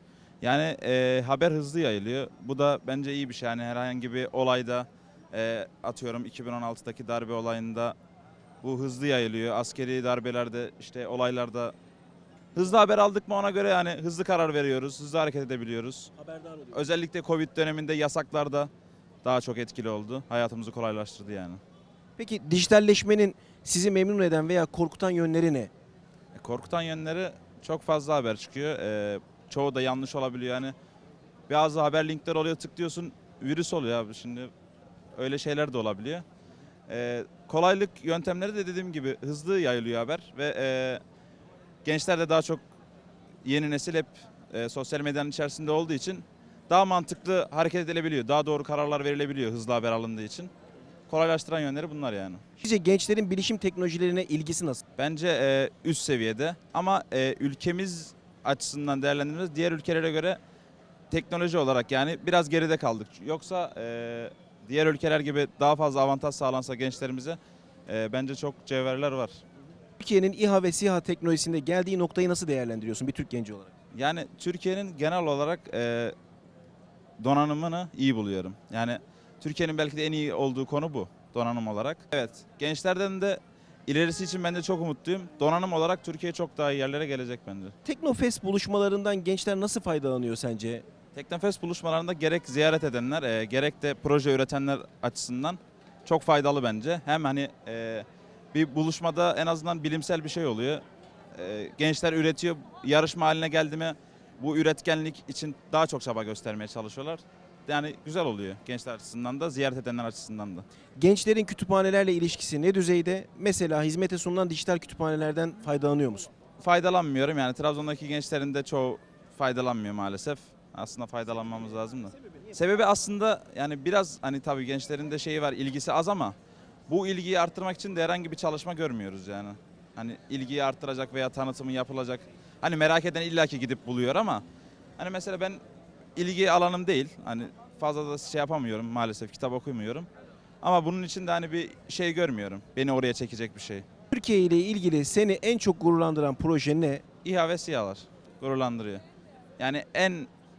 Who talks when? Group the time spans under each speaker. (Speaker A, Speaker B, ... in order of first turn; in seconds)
Speaker A: 0.4-8.0, 8.6-11.7, 12.5-16.1, 16.7-18.7, 19.2-21.6, 26.3-30.7, 31.5-34.5, 35.1-36.2, 36.9-41.0, 41.8-42.6, 43.4-50.5, 51.1-52.4, 55.0-60.4, 61.1-69.4, 73.9-76.1, 77.2-87.7, 91.1-100.8, 101.3-110.6, 116.6-126.3, 126.9-134.4, 135.0-135.6, 136.2-140.1, 140.6-143.8, 147.2-149.0, 149.6-150.3
Speaker B: 16.2-16.7, 22.2-25.7, 52.6-54.8, 70.0-73.7, 87.8-90.8, 111.0-116.3, 144.1-147.0